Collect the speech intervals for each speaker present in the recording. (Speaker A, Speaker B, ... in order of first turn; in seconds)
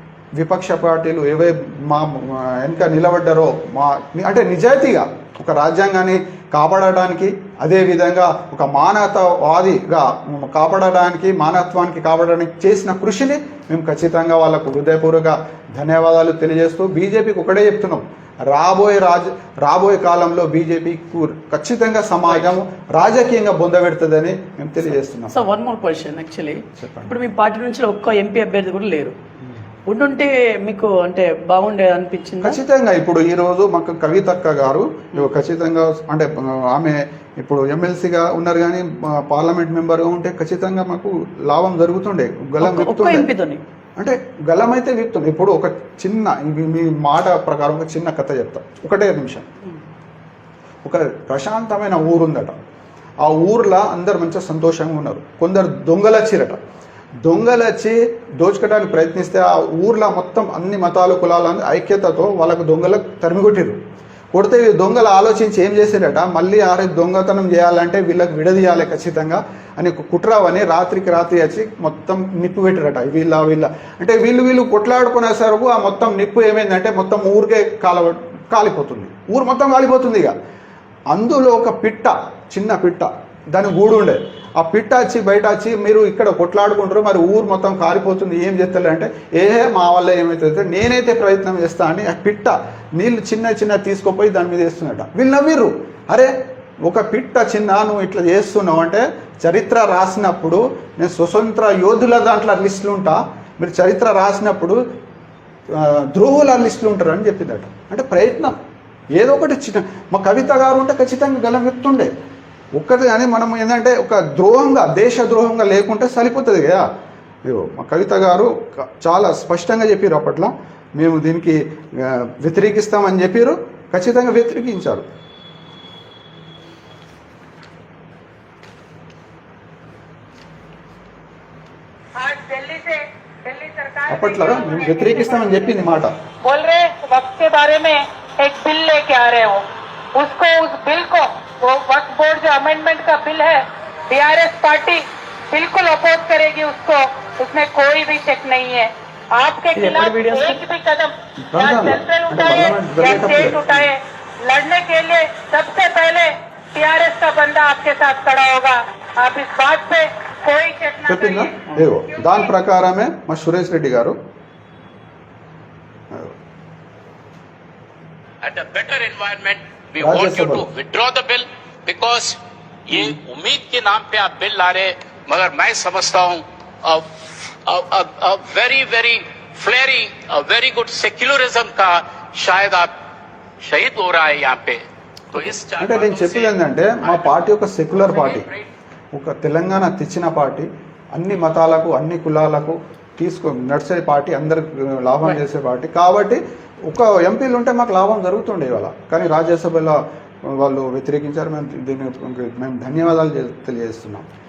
Speaker A: 0.4-25.4, 26.8-27.1, 32.4-43.3, 44.0-49.5, 50.8-52.6, 53.2-56.6, 57.2-63.8, 64.3-80.3, 81.1-96.3, 96.8-104.8, 105.7-108.6, 109.2-112.1, 112.8-116.9, 117.5-125.1, 134.1-136.1, 151.5-153.9, 161.1-164.2, 170.0-170.7, 185.8-188.5, 189.1-204.3
Speaker B: 25.3-29.1, 29.9-32.6, 42.6-43.6, 149.8-150.6
Speaker C: 132.2-139.7, 140.2-162.5
Speaker D: 168.4-182.9, 183.6-184.8, 185.3-187.3, 187.9-188.7